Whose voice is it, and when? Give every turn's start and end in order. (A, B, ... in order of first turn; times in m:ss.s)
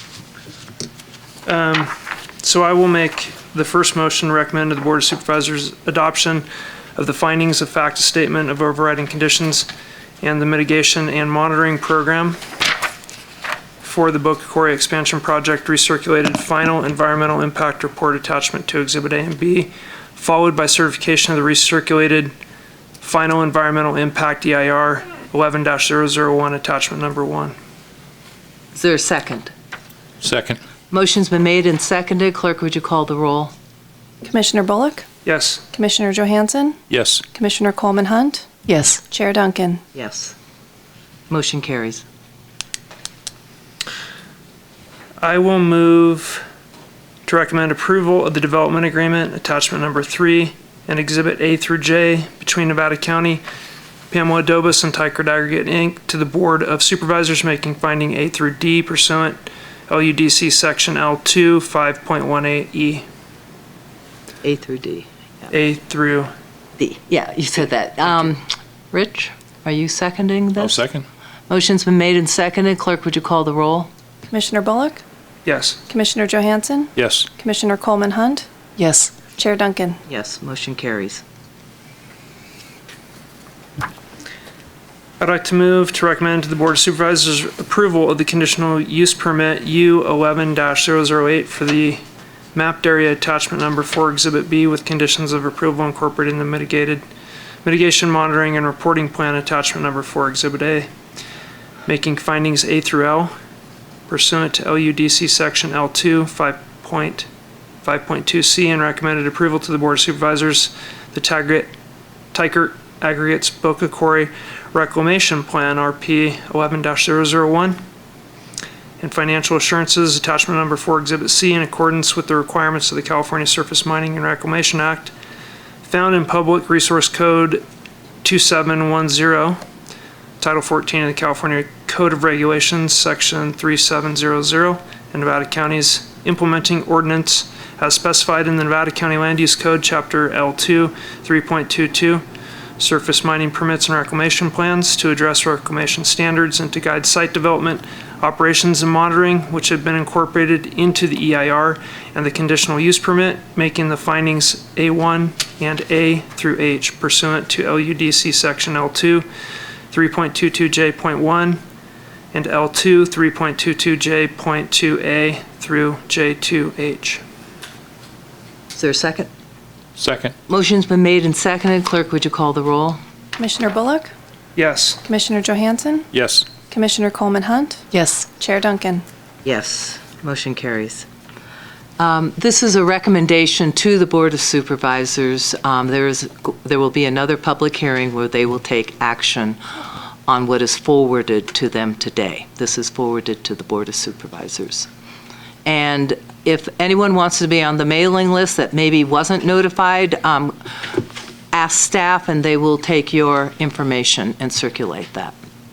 0:01.5-0:09.7 A
0:10.2-0:12.4 A
0:13.8-0:22.3 A
0:23.0-0:27.6 A
0:28.7-0:29.5 B
0:30.2-0:30.6 C
0:30.9-0:33.5 B
0:34.2-0:35.1 D
0:35.2-0:35.6 A
0:35.7-0:36.8 D
0:36.9-0:37.2 C
0:37.3-0:39.8 D
0:40.0-0:40.4 B
0:41.3-0:42.0 B
0:45.2-0:46.4 A
0:47.3-0:53.4 A
0:54.1-1:03.1 A
1:04.4-1:05.5 B
1:05.5-1:06.3 A
1:06.8-1:10.8 B
1:10.6-1:11.1 C
1:11.5-1:13.9 B
1:14.3-1:15.0 D
1:15.4-1:15.8 A
1:15.9-1:20.0 D
1:17.0-1:17.3 C
1:20.1-1:21.2 B
1:25.2-1:32.0 A
1:32.5-1:37.0 A
1:37.6-1:40.9 A
1:41.9-1:43.3 A
1:44.1-1:47.3 A
1:47.8-1:51.7 A
1:52.3-1:57.8 A
1:59.0-2:05.1 A
2:05.8-2:07.6 A
2:08.2-2:09.6 A
2:10.4-2:22.2 A
2:22.8-2:39.3 A
2:39.9-2:41.6 A
2:42.3-2:47.2 A
2:48.7-2:49.3 B
2:50.0-2:50.4 C
2:50.5-2:53.0 B
2:53.4-2:54.1 D
2:54.6-2:55.0 A
2:55.0-2:56.1 D
2:56.1-2:56.5 C
2:56.7-2:59.0 D
2:59.4-3:01.1 B
3:02.0-3:14.9 B
3:15.6-3:25.4 B